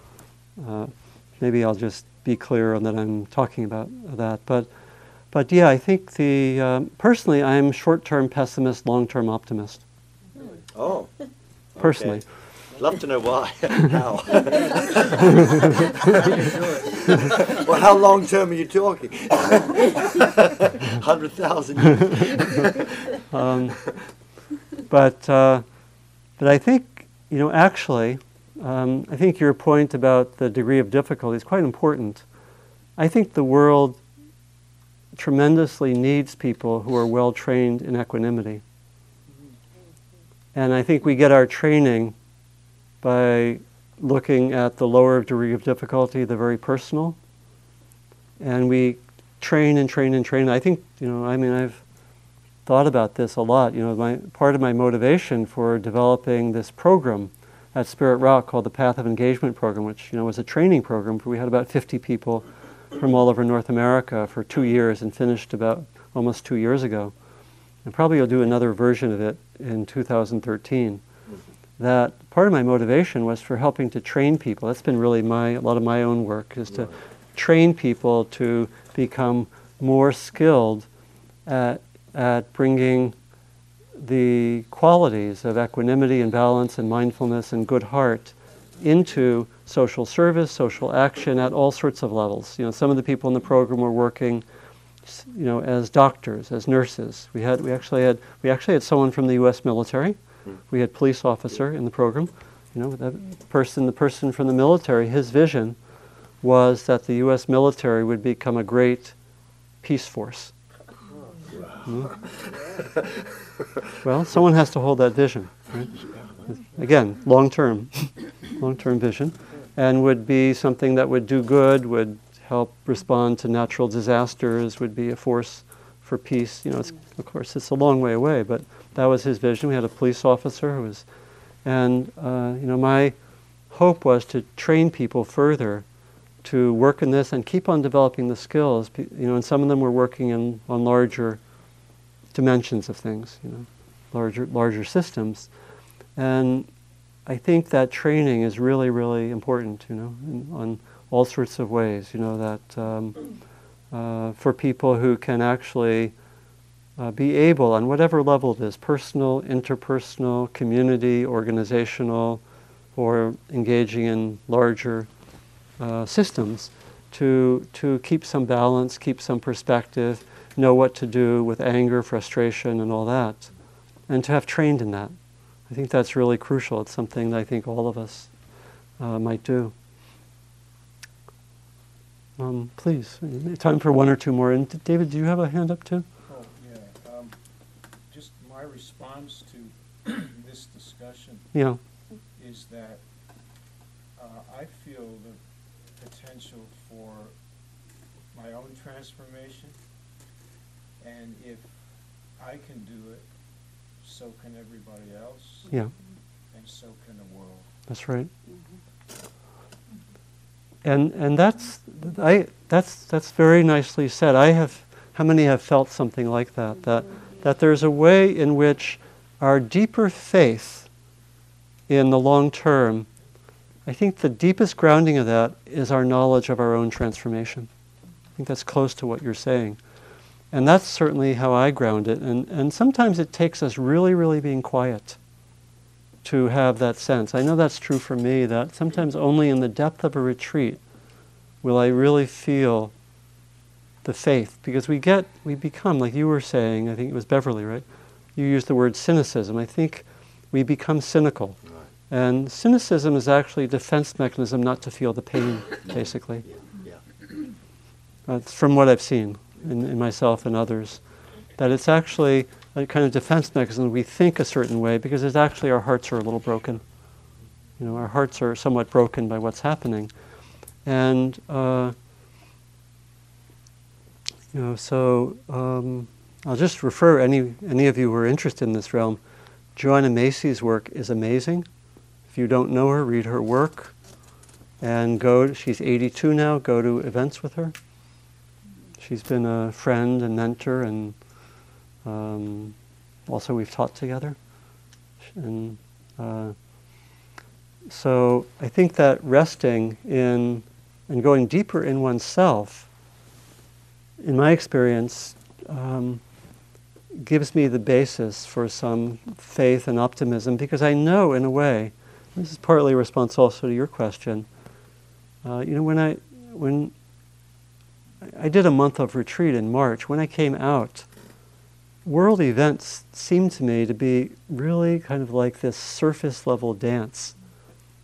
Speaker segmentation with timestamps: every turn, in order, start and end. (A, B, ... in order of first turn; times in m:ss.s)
0:00.6-0:04.7 A
0:05.3-0:09.8 A
0:10.7-0:11.2 B
0:11.7-0:15.2 B
0:11.8-0:12.2 A
0:15.9-0:22.9 B
0:23.3-0:23.9 A
0:24.9-0:25.6 A
0:26.4-0:32.3 A
0:33.0-0:34.0 A
0:35.2-0:38.6 A
0:40.6-0:42.2 A
0:43.0-0:47.2 A
0:48.4-0:51.8 A
0:52.7-1:07.1 A
1:07.8-1:11.0 A
1:11.8-1:20.9 A
1:16.7-1:17.0 B
1:21.5-1:23.2 A
1:24.0-1:34.4 A
1:35.1-1:45.8 A
1:46.4-1:49.2 A
1:49.8-1:50.5 A
1:51.5-1:53.3 B
1:51.9-1:52.1 A
1:54.0-1:55.9 A
1:56.8-2:11.1 A
2:11.6-2:13.2 A
2:13.7-2:15.9 A
2:16.4-2:21.4 A
2:22.3-2:25.5 A
2:26.2-2:26.7 A
2:27.3-2:33.3 A
2:33.9-2:36.1 A
2:37.0-2:42.4 A
2:43.0-2:45.1 A
2:45.8-2:53.5 A
2:54.1-2:55.1 A
2:55.7-2:58.3 A
2:59.0-2:59.7 A
3:02.4-3:06.1 A
3:06.3-3:07.4 C
3:08.1-3:11.5 C
3:11.5-3:11.8 A
3:12.3-3:13.0 C
3:14.2-3:15.4 C
3:16.0-3:17.4 C
3:18.3-3:19.8 C
3:21.0-3:21.8 C
3:22.4-3:23.3 C
3:24.0-3:25.9 C
3:26.5-3:27.7 C
3:27.9-3:28.3 A
3:30.8-3:40.9 A
3:41.9-3:43.1 A
3:43.9-3:47.7 A
3:48.4-3:49.8 A
3:50.5-3:55.2 A
3:56.2-4:00.8 A
4:01.6-4:02.9 A
4:04.0-4:11.6 A
4:12.1-4:16.5 A
4:16.5-4:17.0 B
4:18.3-4:21.0 A
4:21.6-4:26.8 A
4:27.8-4:30.1 A
4:30.8-4:32.0 A
4:34.5-4:39.2 A
4:39.8-4:41.7 A
4:42.3-4:44.0 A
4:44.8-4:47.8 A
4:49.0-4:51.4 A
4:52.0-4:52.8 A
4:53.3-4:54.4 A
4:55.4-4:57.1 A
4:57.9-5:02.9 A
5:04.2-5:06.2 A
5:07.2-5:14.5 A
5:15.4-5:16.9 A
5:18.3-5:21.1 A
5:22.0-5:27.4 A